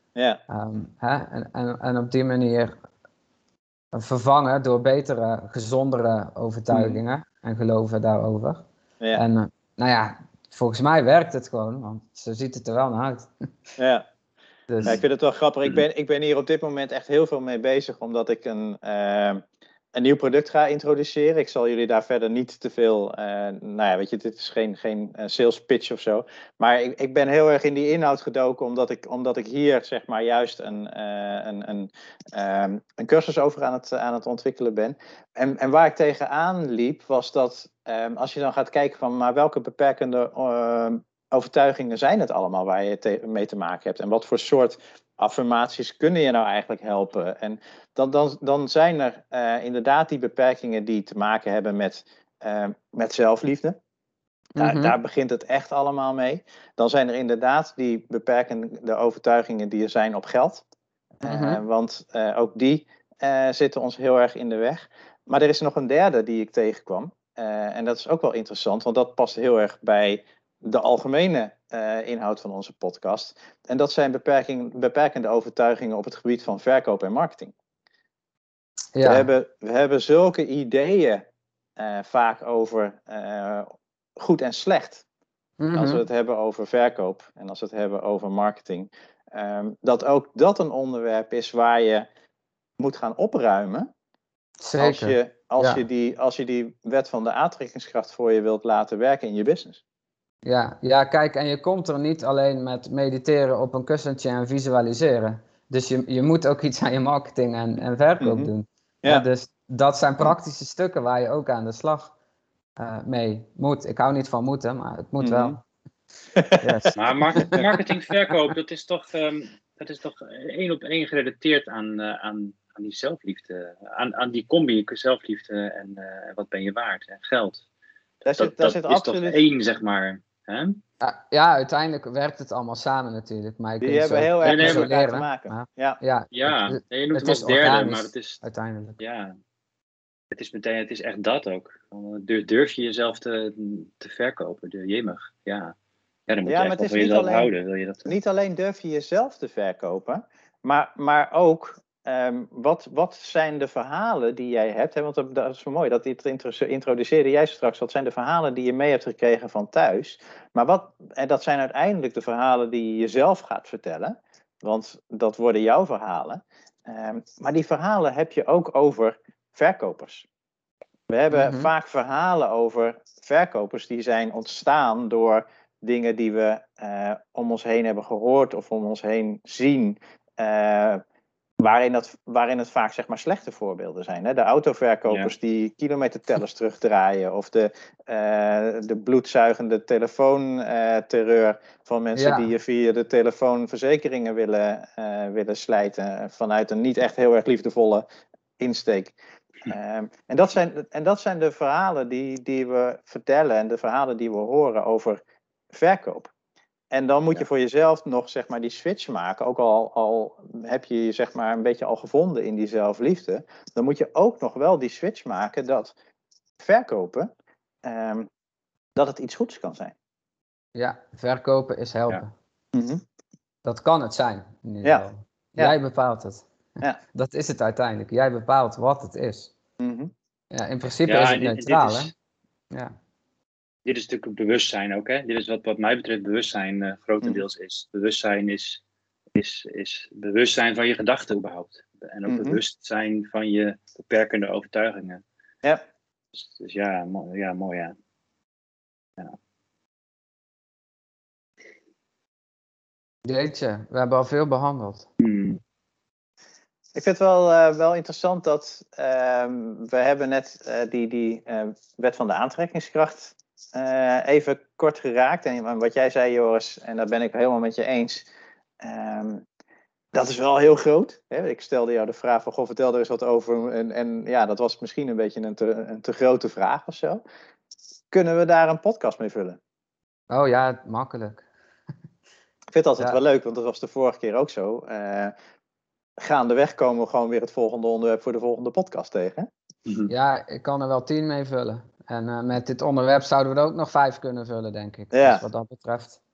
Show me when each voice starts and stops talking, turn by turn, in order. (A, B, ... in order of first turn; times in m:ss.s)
0:00.2-0:00.4 A
0:00.5-0:02.8 B
0:03.9-0:08.6 B
0:06.7-0:07.0 A
0:09.1-0:13.3 B
0:13.8-0:14.0 A
0:14.7-0:15.0 B
0:14.8-0:19.4 A
0:19.9-0:53.8 A
0:54.6-0:54.9 B
0:54.6-1:00.6 A
1:01.2-1:17.5 A
1:01.2-1:01.6 B
1:18.9-1:19.3 B
1:19.0-1:21.2 A
1:21.8-1:25.0 A
1:25.6-1:26.0 B
1:25.7-1:32.1 A
1:32.8-1:33.9 A
1:34.6-1:35.8 B
1:34.8-1:39.8 A
1:40.4-1:52.1 B
1:48.2-1:48.5 A
1:52.8-1:55.6 B
1:55.2-1:55.6 A
1:56.4-1:56.8 A
1:56.6-1:57.6 B
1:56.9-2:07.6 C
2:08.2-2:09.4 A
2:08.3-2:10.8 C
2:11.0-2:19.0 B
2:13.8-2:16.0 A
2:14.4-2:14.9 C
2:16.3-2:18.4 C
2:19.0-2:19.3 C
2:20.3-2:25.7 C
2:26.3-2:28.2 C
2:26.5-2:27.5 A
2:28.0-2:50.3 A
2:51.1-3:01.0 A
2:51.3-2:51.7 B
3:01.6-3:18.0 A
3:05.1-3:05.3 C
3:12.1-3:12.5 B
3:18.6-3:25.2 A
3:25.7-3:26.3 A
3:26.9-3:35.9 A
3:36.6-3:37.3 A
3:37.8-3:38.3 A
3:39.0-3:39.9 A
3:40.7-3:42.3 B
3:42.7-3:43.0 A
3:43.6-3:46.4 B
3:47.1-3:49.5 B
3:49.8-3:50.1 A
3:50.5-3:52.1 B
3:51.0-3:52.1 C
3:53.8-3:58.8 C
3:59.3-4:05.2 C
4:02.2-4:02.6 A
4:06.3-4:07.9 C
4:13.2-4:15.1 B
4:15.2-4:15.6 C
4:16.9-4:28.3 A
4:28.8-4:29.4 A
4:30.1-4:37.2 A
4:38.1-4:39.6 A
4:40.3-4:41.4 B
4:42.7-4:45.3 A
4:46.2-4:49.5 A
4:49.8-4:50.1 C
4:50.1-4:56.2 B
4:55.1-4:55.4 A